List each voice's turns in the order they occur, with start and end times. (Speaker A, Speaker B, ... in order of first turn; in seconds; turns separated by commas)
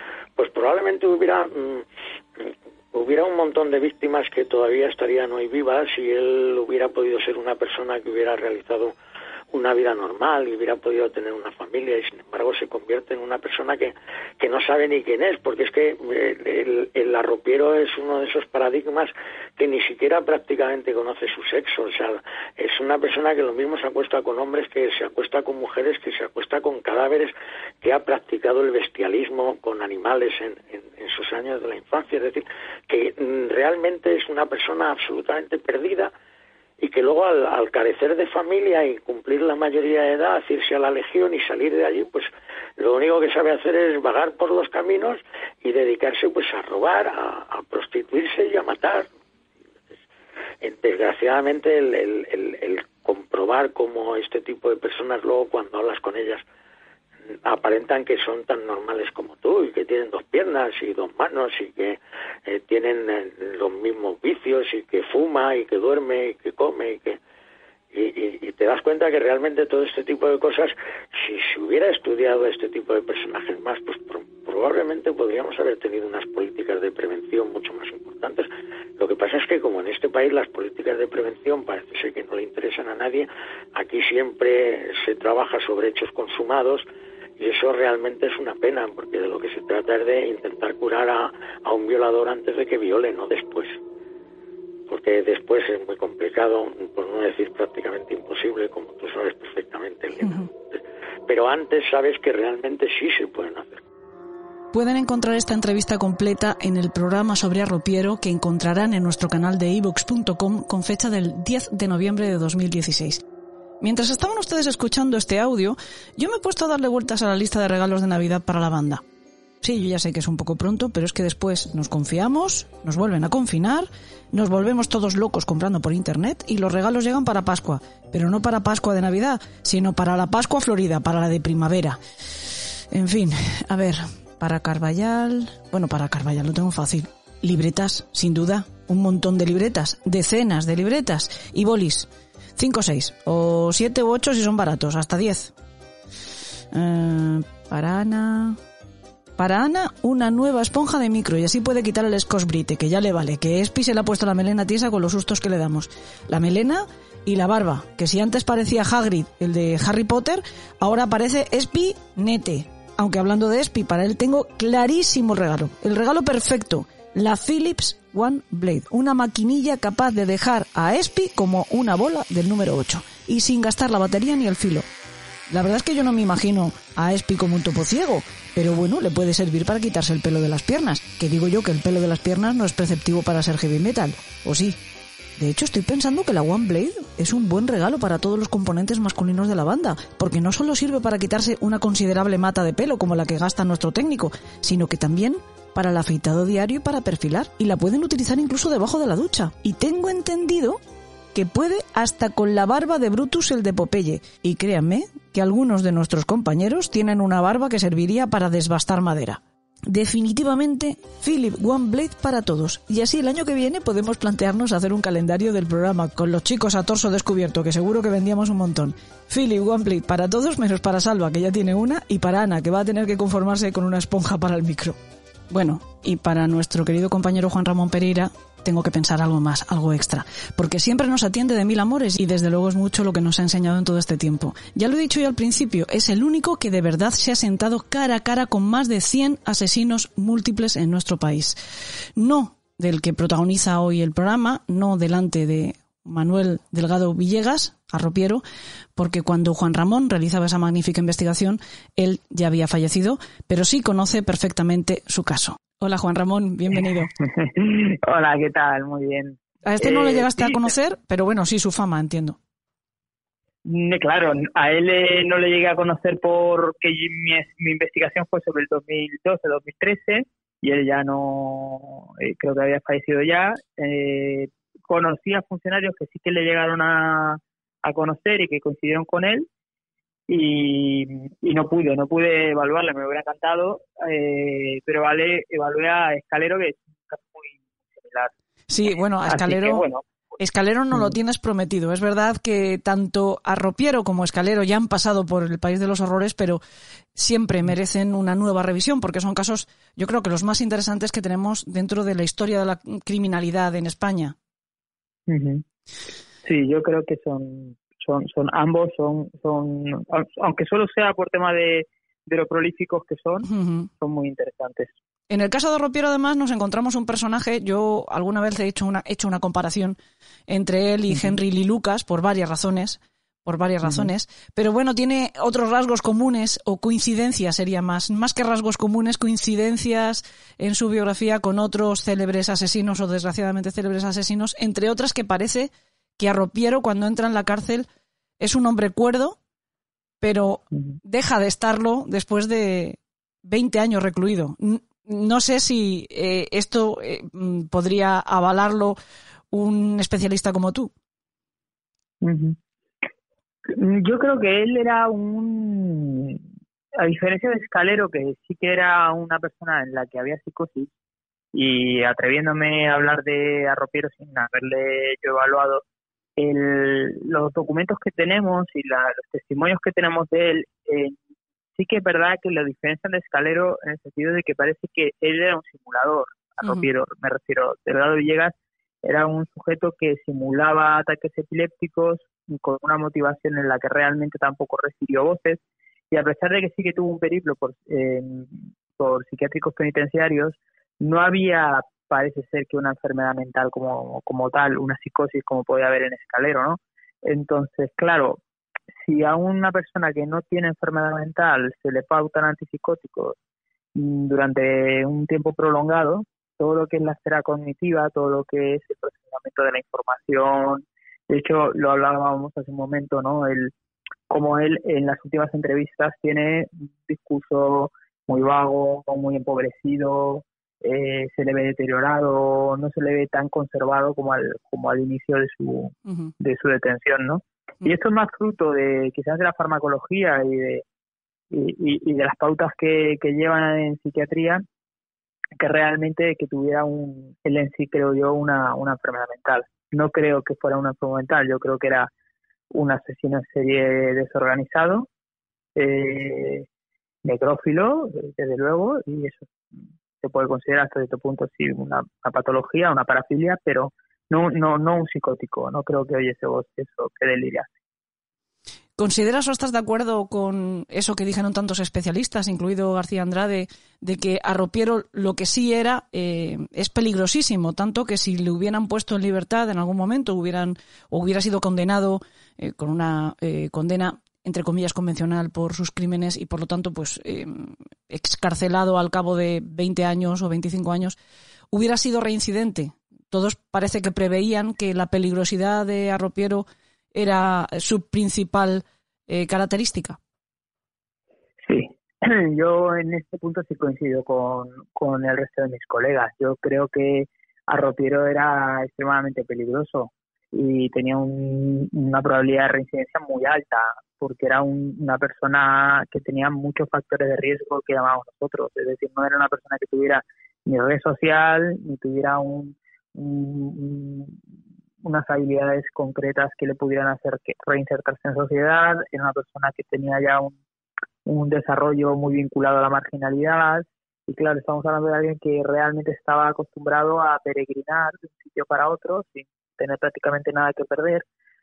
Speaker A: 0.4-1.8, Speaker A: 2.4-8.9, Speaker A: 9.5-36.1, Speaker A: 36.8-49.1, Speaker A: 50.6-56.4, Speaker A: 57.5-67.2, Speaker A: 67.9-86.9, Speaker A: 87.4-93.8, Speaker A: 94.9-103.8, Speaker B: 100.2-100.5, Speaker B: 104.7-113.2, Speaker B: 113.8-119.0, Speaker B: 119.6-132.0, Speaker B: 132.9-145.5, Speaker B: 146.7-148.6, Speaker B: 149.4-174.9, Speaker B: 175.5-184.8, Speaker B: 185.4-200.8, Speaker B: 201.3-225.0, Speaker B: 225.5-241.6, Speaker B: 242.2-248.4, Speaker B: 249.0-257.1, Speaker C: 257.2-260.7, Speaker B: 259.7-262.4, Speaker C: 263.6-279.5, Speaker C: 280.3-288.3, Speaker B: 288.7-289.9, Speaker C: 289.3-290.1, Speaker B: 290.4-296.6, Speaker B: 297.1-304.4, Speaker C: 305.3-305.6, Speaker C: 306.4-313.5, Speaker B: 313.5-313.9, Speaker C: 314.0-314.9, Speaker B: 315.3-320.0, Speaker B: 320.5-337.9, Speaker C: 323.8-324.1, Speaker B: 338.4-339.4, Speaker B: 340.2-349.0, Speaker B: 349.5-350.9, Speaker C: 352.2-352.6, Speaker C: 353.7-356.4, Speaker C: 357.0-360.9, Speaker C: 361.5-365.8, Speaker C: 366.4-371.2, Speaker C: 371.8-398.4, Speaker B: 376.6-376.9, Speaker C: 399.0-403.4, Speaker C: 403.9-413.7, Speaker C: 414.3-430.8, Speaker C: 431.5-434.6, Speaker C: 435.6-442.1, Speaker C: 442.7-445.1, Speaker C: 445.8-446.7, Speaker C: 447.2-449.5, Speaker C: 450.2-457.7, Speaker B: 459.0-481.2, Speaker B: 481.7-490.2, Speaker C: 491.6-514.4, Speaker C: 515.0-520.6, Speaker C: 521.2-531.2